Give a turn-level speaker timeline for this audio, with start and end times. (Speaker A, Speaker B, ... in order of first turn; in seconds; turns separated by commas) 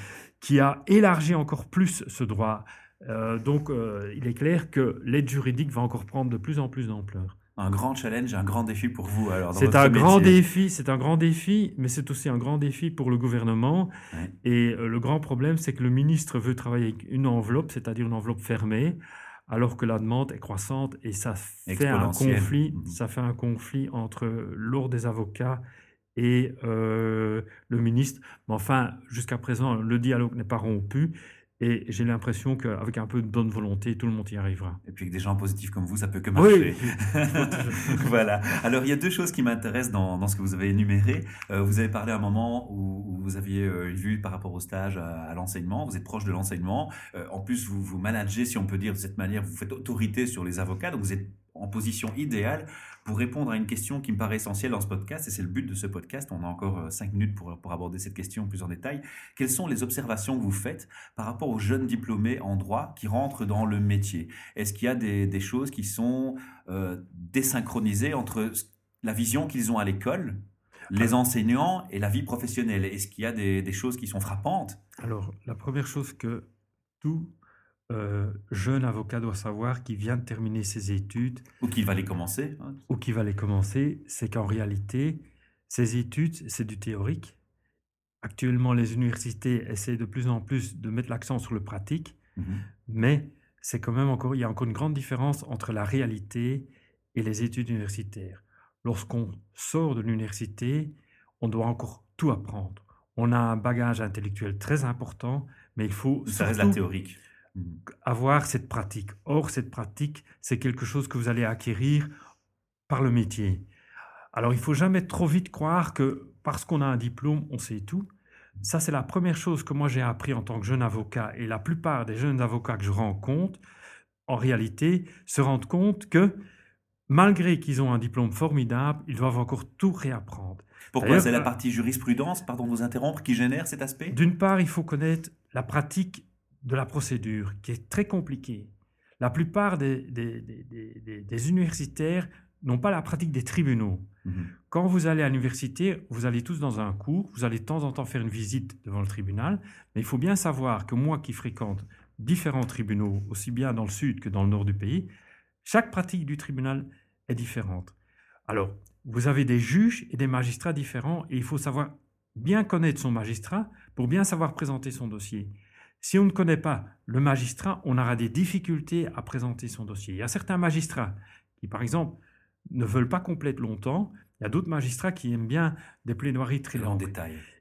Speaker A: 0.4-7.3, Speaker B: 7.6-10.4, Speaker A: 9.5-13.9, Speaker A: 14.4-25.6, Speaker B: 21.7-22.9, Speaker A: 26.1-34.8, Speaker B: 34.8-74.8, Speaker A: 36.3-38.0, Speaker A: 75.0-76.5, Speaker A: 77.0-77.3, Speaker A: 77.9-81.4, Speaker B: 81.6-82.9, Speaker A: 82.9-87.4, Speaker A: 88.2-92.2, Speaker B: 92.4-92.6, Speaker A: 92.8-106.8, Speaker B: 106.2-107.8, Speaker A: 108.0-112.1, Speaker A: 112.9-113.7, Speaker A: 114.3-118.1, Speaker A: 118.6-123.6, Speaker A: 124.3-126.3, Speaker A: 127.1-131.5, Speaker B: 130.9-134.2, Speaker A: 134.1-144.1, Speaker B: 144.2-144.5, Speaker A: 144.7-155.1, Speaker A: 155.6-157.9, Speaker A: 158.5-172.2, Speaker A: 172.7-177.1, Speaker B: 176.7-177.4